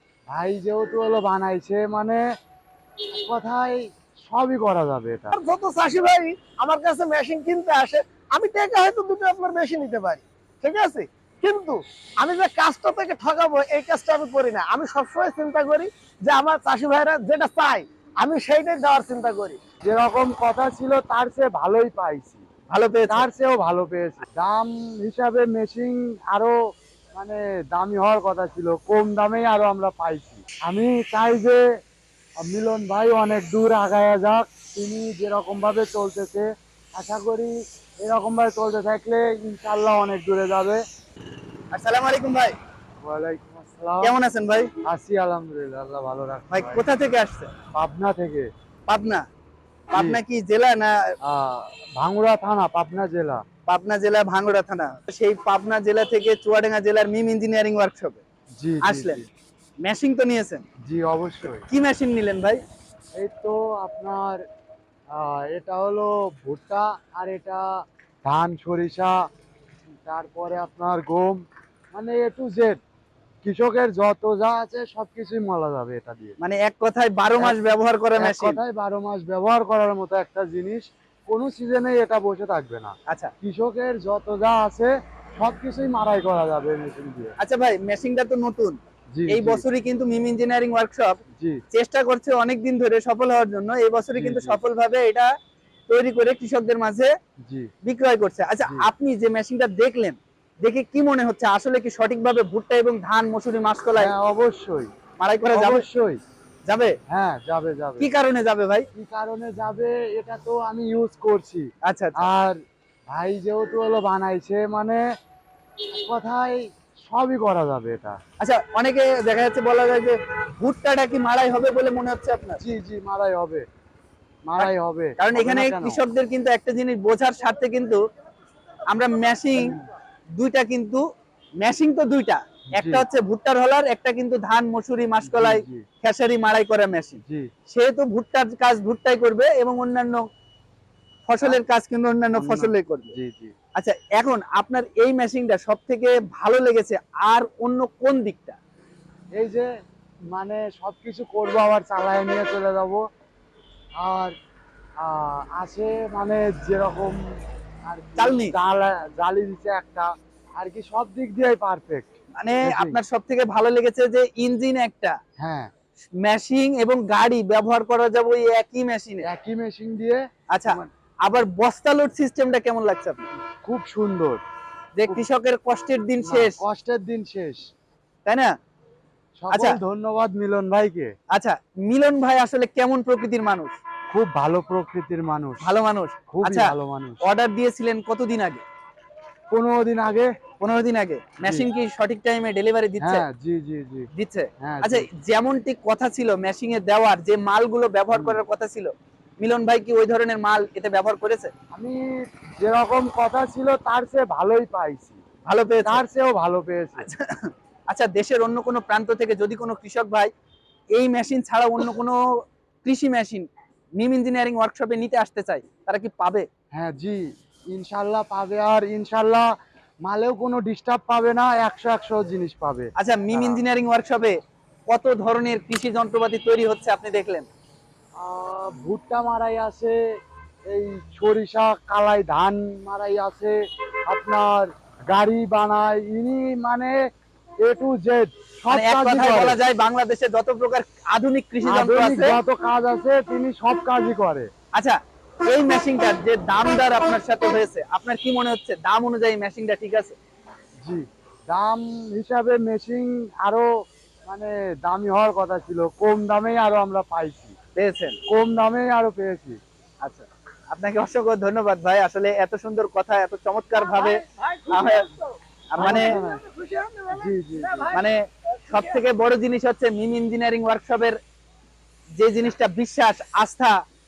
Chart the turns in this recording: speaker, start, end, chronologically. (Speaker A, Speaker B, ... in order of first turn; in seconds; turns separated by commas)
Speaker A: 0.3-2.2, Speaker A: 3.1-5.3, Speaker B: 5.3-19.6, Speaker A: 19.8-22.4, Speaker C: 22.7-23.3, Speaker A: 23.1-26.6, Speaker A: 27.2-31.6, Speaker A: 32.4-40.8, Speaker C: 41.7-42.5, Speaker A: 43.0-44.1, Speaker C: 44.0-44.7, Speaker A: 44.9-46.8, Speaker C: 46.5-47.5, Speaker A: 47.8-48.5, Speaker C: 48.9-49.2, Speaker C: 49.9-51.1, Speaker A: 49.9-50.2, Speaker A: 51.2-53.4, Speaker C: 53.7-58.2, Speaker A: 58.6-59.3, Speaker C: 58.8-59.2, Speaker C: 59.8-60.6, Speaker A: 60.8-61.6, Speaker C: 61.7-62.6, Speaker A: 63.2-64.4, Speaker A: 65.1-67.7, Speaker A: 68.2-69.1, Speaker A: 70.0-71.4, Speaker A: 71.9-72.8, Speaker A: 73.4-76.4, Speaker C: 76.4-78.6, Speaker A: 78.2-87.3, Speaker C: 83.1-83.3, Speaker C: 87.4-88.8, Speaker A: 89.1-89.6, Speaker C: 89.3-91.1, Speaker C: 91.7-95.3, Speaker A: 94.2-94.6, Speaker C: 95.9-97.1, Speaker A: 97.4-97.7, Speaker C: 97.8-104.1, Speaker A: 104.0-104.9, Speaker C: 105.2-105.8, Speaker A: 105.5-106.2, Speaker C: 106.7-106.9, Speaker A: 107.1-108.1, Speaker C: 108.0-108.9, Speaker A: 108.9-112.6, Speaker C: 111.8-112.3, Speaker A: 113.1-115.0, Speaker A: 115.9-118.2, Speaker C: 118.4-122.6, Speaker A: 122.6-123.7, Speaker A: 124.4-126.0, Speaker C: 124.6-128.0, Speaker C: 128.9-129.8, Speaker C: 130.3-131.0, Speaker C: 131.6-140.2, Speaker A: 132.8-133.0, Speaker A: 135.2-135.8, Speaker C: 141.3-143.2, Speaker A: 142.4-143.5, Speaker C: 143.8-148.6, Speaker A: 149.3-149.7, Speaker A: 150.3-153.0, Speaker A: 154.0-154.3, Speaker A: 155.0-157.2, Speaker A: 157.9-162.1, Speaker C: 158.2-158.5, Speaker C: 162.4-165.2, Speaker A: 162.6-163.0, Speaker A: 165.4-165.7, Speaker C: 166.2-169.2, Speaker A: 169.2-170.9, Speaker C: 170.5-173.2, Speaker A: 173.6-174.4, Speaker C: 174.9-176.6, Speaker A: 176.2-177.7, Speaker C: 178.2-178.5, Speaker A: 179.4-181.1, Speaker C: 179.5-179.8, Speaker C: 181.3-183.8, Speaker A: 184.1-185.7, Speaker C: 185.6-186.7, Speaker A: 186.3-187.2, Speaker C: 187.2-188.6, Speaker A: 189.5-190.3, Speaker C: 190.6-193.2, Speaker A: 191.4-191.7, Speaker A: 193.0-194.1, Speaker C: 194.1-201.5, Speaker A: 194.6-195.1, Speaker A: 198.1-198.4, Speaker A: 201.7-202.1, Speaker A: 202.6-205.2, Speaker C: 205.5-206.0, Speaker A: 205.9-207.1, Speaker C: 207.0-210.3, Speaker C: 210.9-212.2, Speaker C: 212.8-216.5, Speaker A: 216.8-219.5, Speaker A: 220.1-223.6, Speaker C: 223.0-224.4, Speaker C: 224.9-227.5, Speaker A: 228.2-230.0, Speaker A: 230.7-233.6, Speaker A: 234.1-237.0, Speaker A: 237.6-239.6, Speaker C: 238.7-242.4, Speaker A: 241.6-244.5, Speaker C: 244.7-250.2, Speaker A: 250.8-253.7, Speaker A: 254.3-257.6, Speaker C: 257.8-258.2, Speaker A: 258.3-259.6, Speaker C: 260.0-265.1, Speaker B: 263.7-268.1, Speaker C: 265.7-266.1, Speaker A: 265.8-266.4, Speaker A: 267.1-267.9, Speaker C: 267.9-268.2, Speaker B: 268.6-269.0, Speaker C: 268.7-271.2, Speaker C: 272.2-273.7